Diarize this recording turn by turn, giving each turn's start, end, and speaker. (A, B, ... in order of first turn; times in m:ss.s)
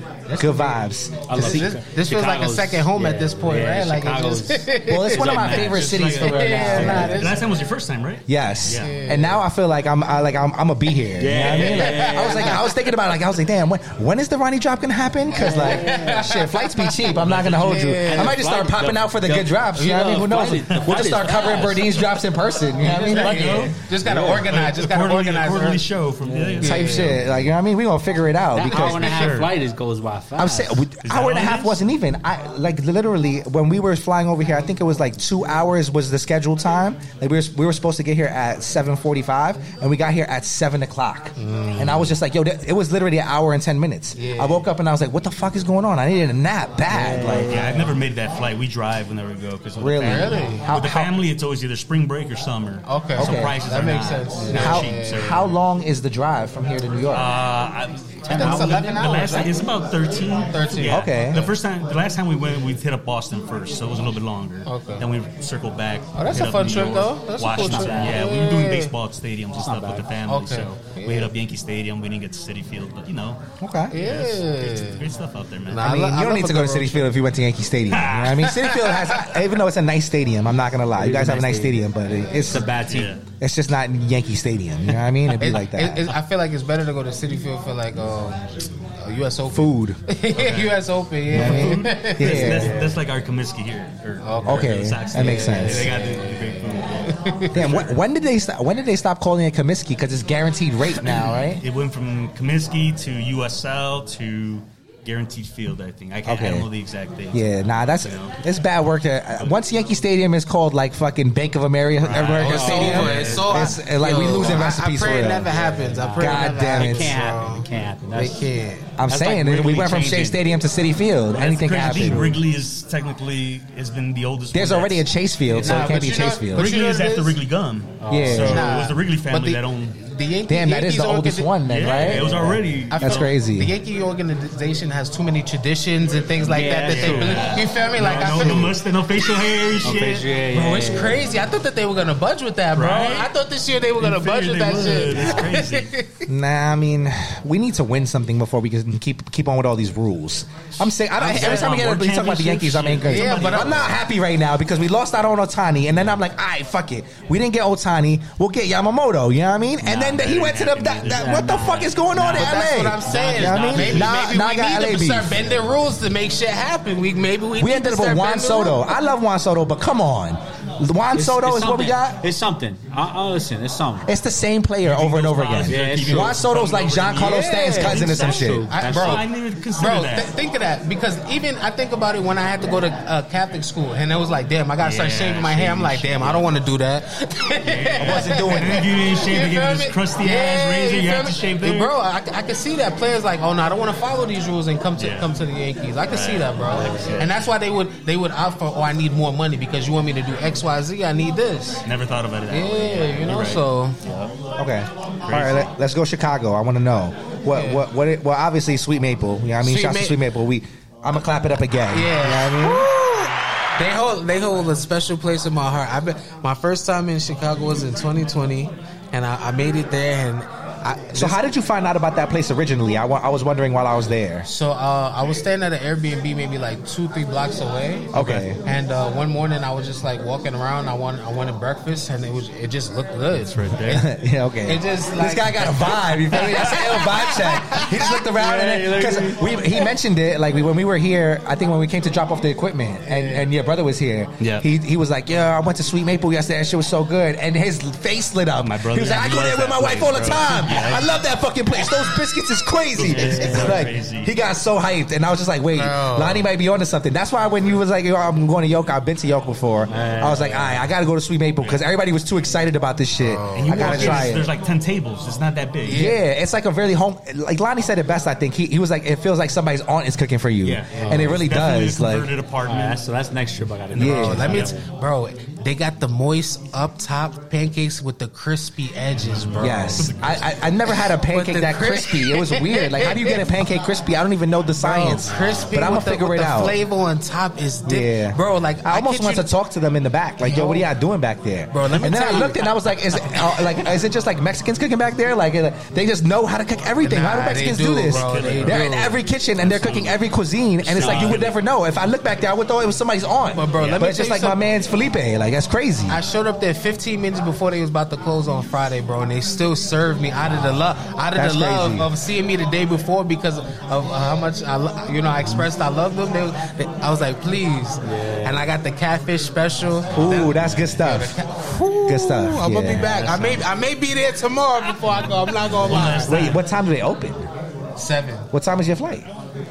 0:00.3-0:04.6 A
0:00.4-0:01.7 B
0:01.3-0:07.4 C
0:04.9-0:07.3 B
0:05.1-0:08.9 D
0:06.6-0:07.2 A
0:08.3-0:23.7 B
0:08.7-0:09.4 C
0:11.2-0:12.6 A
0:11.5-0:12.7 C
0:15.3-0:16.2 A
0:15.4-0:16.9 C
0:17.2-0:17.8 D
0:17.4-0:22.0 A
0:17.6-0:18.4 C
0:20.0-0:20.3 C
0:22.8-0:25.8 C
0:23.1-0:27.2 D
0:24.0-0:24.5 A
0:26.2-0:26.6 A
0:26.6-0:27.3 C
0:26.6-0:29.3 B
0:28.5-0:30.8 A
0:28.7-0:29.3 C
0:29.0-0:29.5 D
0:30.4-0:47.6 B
0:31.0-0:31.8 D
0:41.4-0:42.1 C
0:44.2-0:44.6 C
0:46.9-0:47.9 A
0:47.4-0:55.5 D
0:49.8-0:51.1 B
0:50.0-0:50.6 C
0:52.9-0:55.4 C
0:53.2-0:53.6 B
0:54.5-0:57.3 B
0:57.1-1:13.4 D
0:58.2-0:59.5 A
0:58.3-0:59.6 C
1:00.5-1:01.5 C
1:00.8-1:01.4 B
1:04.6-1:05.0 C
1:06.2-1:08.9 C
1:07.5-1:08.2 A
1:09.6-1:10.1 A
1:10.3-1:11.3 C
1:13.6-1:13.9 B
1:13.9-1:15.0 C
1:14.0-1:16.0 D
1:15.7-1:17.1 C
1:15.8-1:22.7 B
1:17.9-1:18.5 D
1:18.5-1:19.2 C
1:21.0-1:21.8 A
1:22.5-1:23.1 A
1:22.8-1:23.2 D
1:23.4-1:26.1 B
1:25.4-1:28.4 C
1:29.0-1:32.9 C
1:29.5-1:30.0 B
1:30.3-1:37.9 D
1:31.3-1:32.7 B
1:34.2-1:37.7 C
1:34.4-1:35.9 B
1:37.5-1:41.6 B
1:41.6-1:48.4 D
1:46.2-1:46.7 B
1:47.3-1:55.5 B
1:52.0-1:53.7 D
1:52.4-1:58.8 C
1:52.4-1:53.8 A
1:55.5-1:58.5 A
1:56.2-1:57.2 B
1:59.0-2:02.3 B
1:59.1-2:00.4 A
2:01.3-2:05.0 D
2:01.8-2:02.4 A
2:04.5-2:06.7 B
2:05.6-2:10.0 D
2:05.6-2:07.4 C
2:08.0-2:08.6 A
2:08.1-2:08.7 B
2:08.4-2:12.3 C
2:10.5-2:12.4 B
2:11.7-2:13.3 D
2:12.2-2:12.6 A
2:12.9-2:26.1 C
2:12.9-2:13.7 B
2:16.4-2:20.2 D
2:16.4-2:18.7 A
2:19.8-2:21.3 A
2:22.7-2:23.3 D
2:24.0-2:25.9 D
2:26.3-2:45.4 B
2:31.2-2:34.0 D
2:31.3-2:31.6 C
2:33.0-2:34.0 C
2:39.8-2:41.5 D
2:41.0-2:42.4 A
2:42.1-2:44.2 D
2:42.4-2:48.8 C
2:43.1-2:43.9 A
2:47.6-2:52.2 B
2:51.1-2:54.1 A
2:54.0-2:58.7 B
2:54.8-3:00.3 D
2:55.6-2:56.4 A
2:57.2-3:21.8 C
2:57.9-2:59.2 A
3:04.8-3:06.6 D
3:07.6-3:11.9 D
3:08.0-3:08.9 B
3:15.0-3:15.3 D
3:16.1-3:17.5 D
3:16.7-3:17.2 A
3:21.8-3:24.3 D
3:22.5-3:24.0 C
3:24.6-3:32.9 B
3:25.3-3:25.7 D
3:27.5-3:27.8 C
3:29.6-3:30.2 C
3:31.9-3:41.4 C
3:41.1-3:44.4 B
3:44.4-3:48.1 C
3:48.1-3:48.6 B
3:48.6-3:54.1 C
3:53.3-3:54.0 D
3:53.9-4:24.5 B
3:54.6-3:58.0 C
3:56.4-3:56.7 D
3:58.4-3:59.4 A
4:03.1-4:03.4 C
4:04.4-4:04.6 D
4:08.6-4:11.1 D
4:13.0-4:14.3 D
4:13.1-4:13.8 A
4:15.8-4:16.5 C
4:19.9-4:20.9 A
4:23.2-4:24.3 C
4:23.5-4:26.1 D
4:25.8-4:26.2 C
4:25.9-4:32.3 B
4:30.6-4:31.4 A
4:30.9-4:31.3 C
4:31.1-4:33.0 D
4:32.6-4:34.8 A
4:33.9-4:34.5 B
4:34.0-4:40.2 C
4:34.4-4:34.7 D
4:39.2-4:40.5 D
4:39.6-4:46.8 B
4:40.9-4:43.4 C
4:44.8-4:49.4 C
4:45.3-4:45.6 A
4:47.8-5:06.2 B
4:50.4-4:50.9 C
4:51.7-4:52.6 C
4:57.0-4:59.2 C
4:58.0-4:58.9 D
4:59.6-5:00.2 D
5:00.8-5:01.6 D
5:01.0-5:01.3 C
5:03.5-5:04.6 C
5:03.8-5:04.1 D
5:06.1-5:26.5 C
5:11.3-5:12.1 B
5:18.0-5:18.6 A
5:20.1-5:21.4 B
5:20.3-5:21.0 A
5:22.0-5:23.1 B
5:22.9-5:23.7 A
5:25.7-5:26.6 D
5:25.8-5:26.1 A
5:26.3-5:27.5 B
5:28.0-5:28.5 C
5:28.5-5:29.3 B